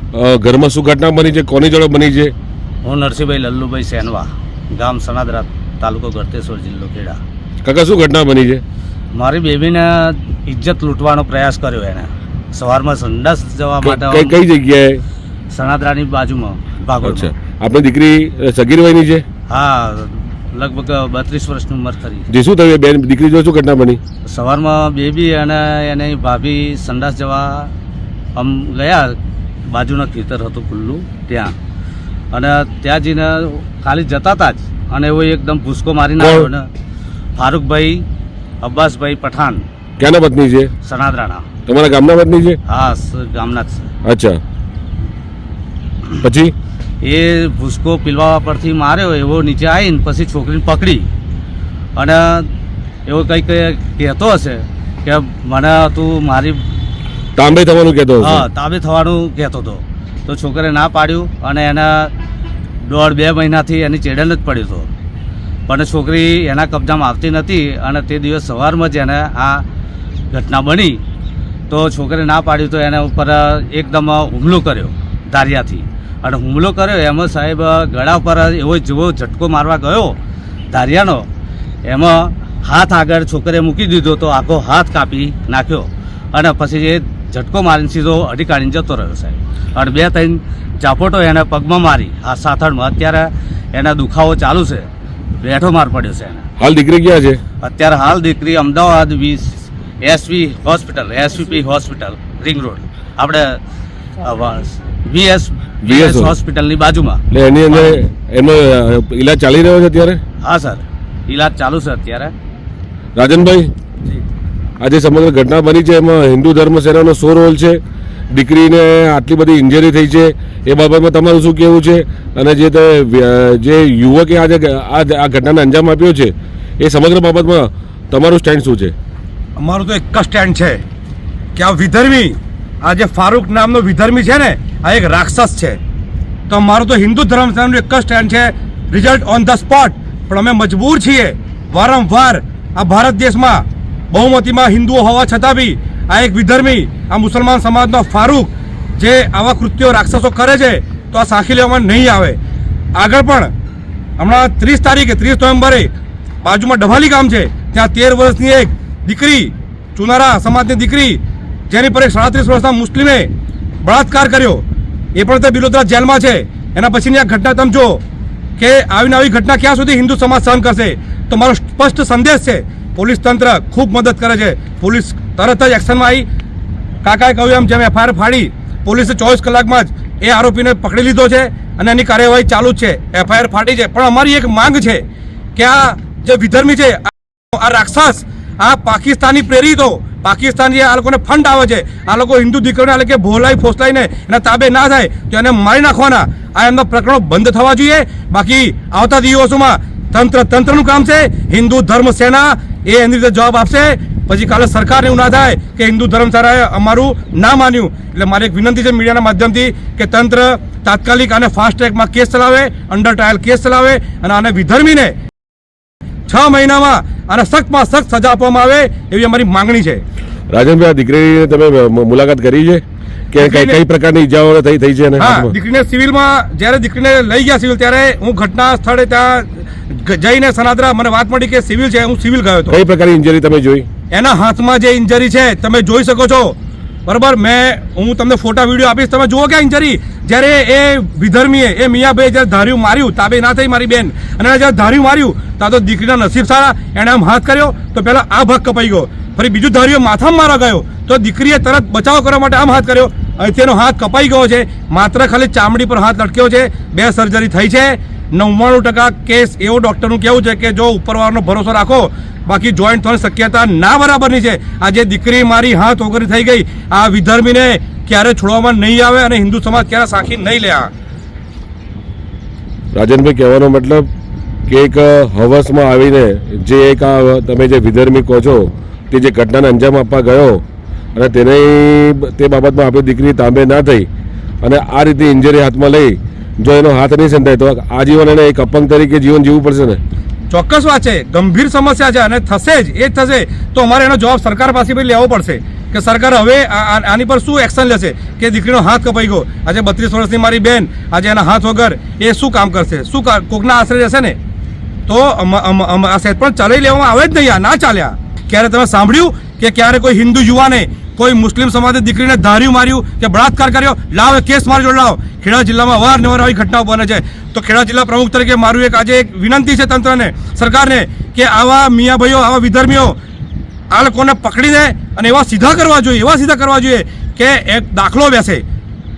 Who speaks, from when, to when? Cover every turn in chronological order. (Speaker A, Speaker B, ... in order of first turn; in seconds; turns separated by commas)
Speaker A: 0.1-2.3, Speaker B: 2.8-7.2, Speaker A: 7.6-8.6, Speaker B: 9.1-14.4, Speaker A: 13.8-15.0, Speaker B: 15.5-17.3, Speaker A: 17.0-19.2, Speaker B: 19.5-22.2, Speaker A: 22.3-24.0, Speaker B: 24.3-27.7, Speaker B: 28.4-29.1, Speaker B: 29.7-31.5, Speaker B: 32.3-36.7, Speaker A: 36.2-36.5, Speaker B: 37.4-38.0, Speaker B: 38.6-39.6, Speaker A: 40.0-40.7, Speaker B: 40.8-41.4, Speaker A: 41.6-42.6, Speaker B: 42.7-43.9, Speaker A: 44.0-44.4, Speaker A: 46.2-46.5, Speaker B: 47.0-51.1, Speaker B: 52.0-52.5, Speaker B: 53.1-56.6, Speaker A: 57.4-58.4, Speaker B: 58.2-62.1, Speaker B: 62.8-64.9, Speaker B: 65.7-69.6, Speaker B: 70.3-71.0, Speaker B: 71.7-80.2, Speaker B: 80.7-81.2, Speaker B: 81.8-94.9, Speaker B: 95.4-96.5, Speaker A: 96.6-97.4, Speaker B: 97.6-103.6, Speaker B: 104.2-108.0, Speaker A: 105.8-106.3, Speaker A: 107.3-110.2, Speaker B: 110.4-112.3, Speaker A: 113.2-113.7, Speaker A: 114.8-117.8, Speaker A: 118.3-128.9, Speaker C: 129.6-130.8, Speaker C: 131.5-135.8, Speaker C: 136.5-152.4, Speaker C: 152.9-153.5, Speaker C: 154.2-155.9, Speaker C: 156.4-163.3, Speaker C: 163.8-164.6, Speaker C: 165.1-168.0, Speaker C: 168.6-176.2, Speaker C: 177.0-185.0, Speaker C: 185.5-215.1, Speaker C: 216.3-220.0, Speaker A: 220.5-225.5, Speaker C: 223.4-223.8, Speaker C: 225.2-232.8, Speaker A: 232.7-233.8, Speaker C: 234.1-270.9, Speaker A: 272.9-274.1, Speaker A: 274.7-280.6, Speaker A: 281.1-284.1, Speaker A: 284.6-290.0, Speaker C: 290.5-304.4, Speaker C: 305.1-323.1, Speaker C: 323.9-328.6